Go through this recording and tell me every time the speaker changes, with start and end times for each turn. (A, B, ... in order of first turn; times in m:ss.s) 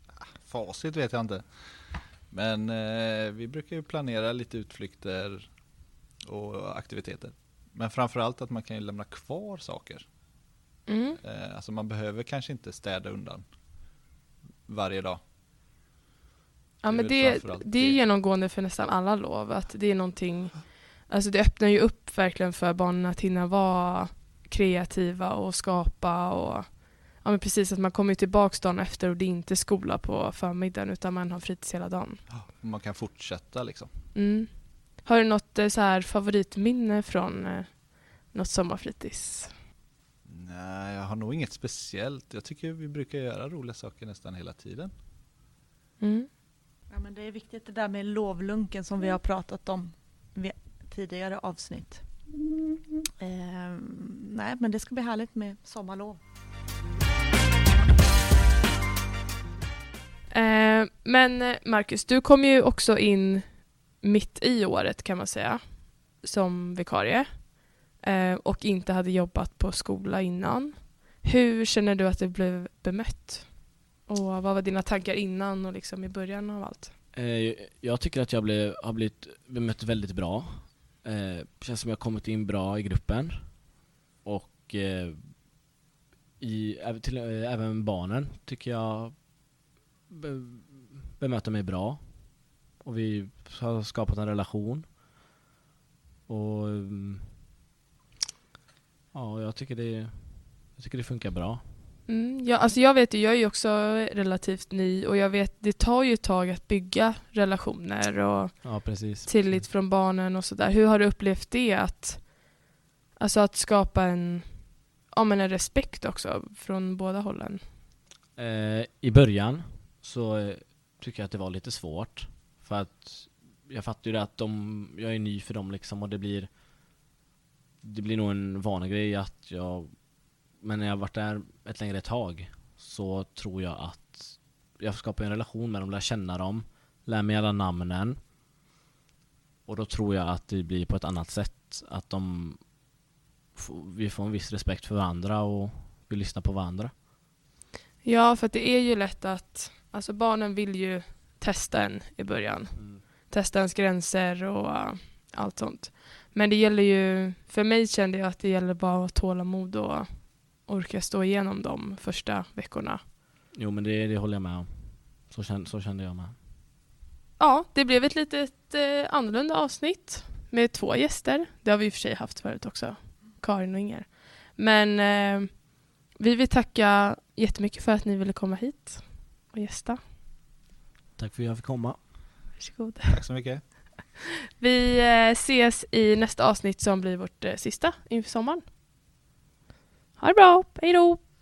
0:00.1-0:05.5 A
0:06.2-0:10.1 A
0:10.9-0:11.2 B
0:11.2-0:13.4 A
0:14.7-0:15.2 A
0:16.8-0:32.2 B
0:16.9-0:18.0 A
0:32.3-0:33.9 A
0:34.1-0:39.6 B
0:40.3-0:44.9 A
0:46.0-0:46.3 B
0:46.9-0:52.2 C
0:53.2-0:56.2 C
1:00.3-1:16.9 B
1:17.1-1:23.7 D
1:24.2-1:25.5 D
1:26.4-1:29.4 D
1:30.1-1:35.0 D
1:36.3-1:37.4 D
1:39.1-1:41.9 D
1:42.1-1:57.7 B
1:48.6-1:49.6 D
1:58.4-2:06.6 D
2:07.8-2:18.2 D
2:19.6-2:22.8 D
2:23.5-2:27.0 D
2:28.0-2:43.0 B
2:32.8-2:33.1 D
2:43.6-2:46.4 D
2:47.4-3:00.1 B
3:01.2-3:02.2 D
3:02.6-3:03.2 B
3:03.1-3:03.6 A
3:04.6-3:08.7 B
3:10.2-3:11.2 B